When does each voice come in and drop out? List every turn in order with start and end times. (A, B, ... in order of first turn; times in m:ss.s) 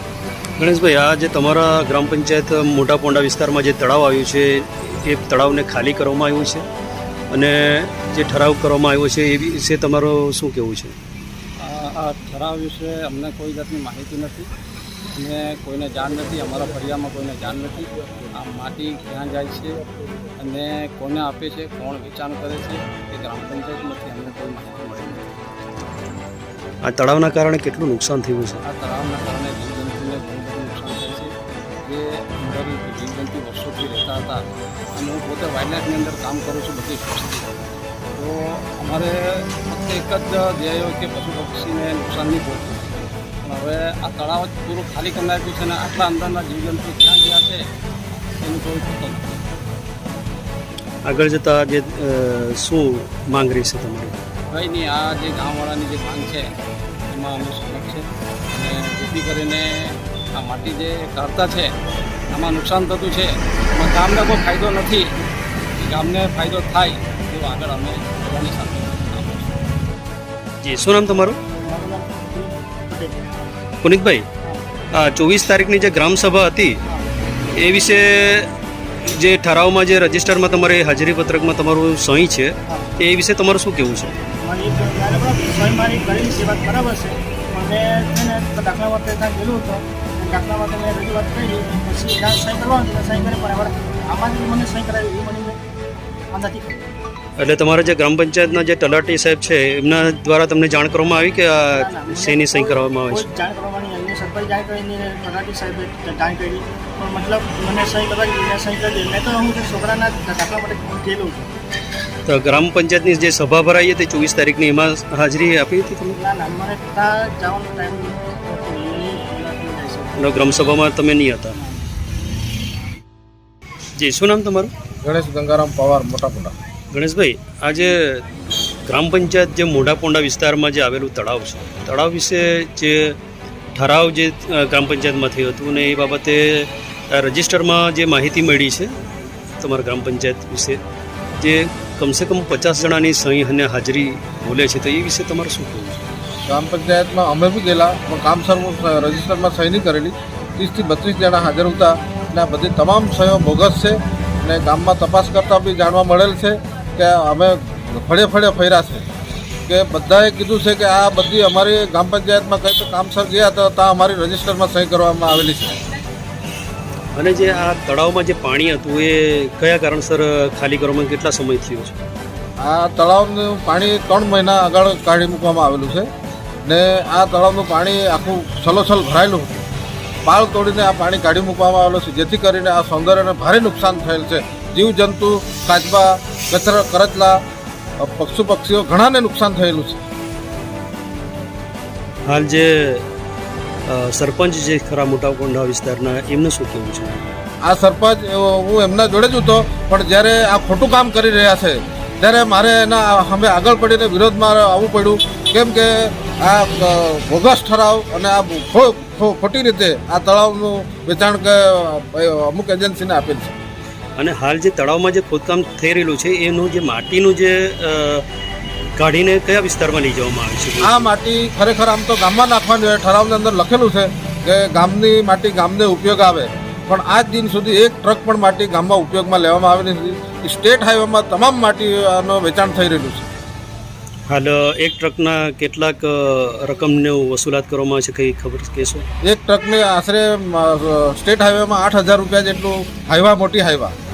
0:00.6-0:06.6 A
0:07.3-0:10.9 A
0:11.6-0:14.5 B
0:15.2-0:19.8 B
0:20.4-0:25.4 B
0:26.8-0:28.6 A
0:28.6-0:31.3 B
0:31.8-0:34.4 B
0:34.9-0:37.5 B
0:38.2-0:47.6 B
0:48.4-0:49.4 B
0:51.0-0:54.2 A
0:54.5-0:56.5 B
0:57.1-1:01.7 B
1:02.3-1:05.1 B
1:05.8-1:09.5 B
1:10.6-1:11.4 A
1:11.6-1:13.3 C
1:13.8-1:14.3 A
1:15.0-1:16.8 A
1:17.6-1:18.5 A
1:19.0-1:24.1 A
1:24.4-1:35.6 C
1:36.3-1:36.8 C
1:37.4-1:43.3 A
1:41.7-1:51.5 C
1:52.3-1:56.2 A
1:56.1-2:00.6 C
2:00.2-2:01.6 A
2:04.0-2:04.7 A
2:05.0-2:06.5 D
2:06.9-2:08.2 A
2:08.8-2:13.2 A
2:13.7-2:18.9 A
2:19.6-2:20.8 A
2:21.4-2:26.0 A
2:26.5-2:39.0 D
2:39.7-2:45.7 D
2:47.1-2:52.0 A
2:52.6-2:56.1 D
2:56.6-2:59.6 D
3:00.2-3:07.4 D
3:08.0-3:10.0 D
3:12.2-3:13.0 A
3:13.9-3:17.2 A
3:17.6-3:33.6 D
3:34.2-3:38.2 A
3:39.0-3:41.1 A
3:40.8-3:53.3 D
3:54.3-3:59.0 A
3:59.2-4:03.9 D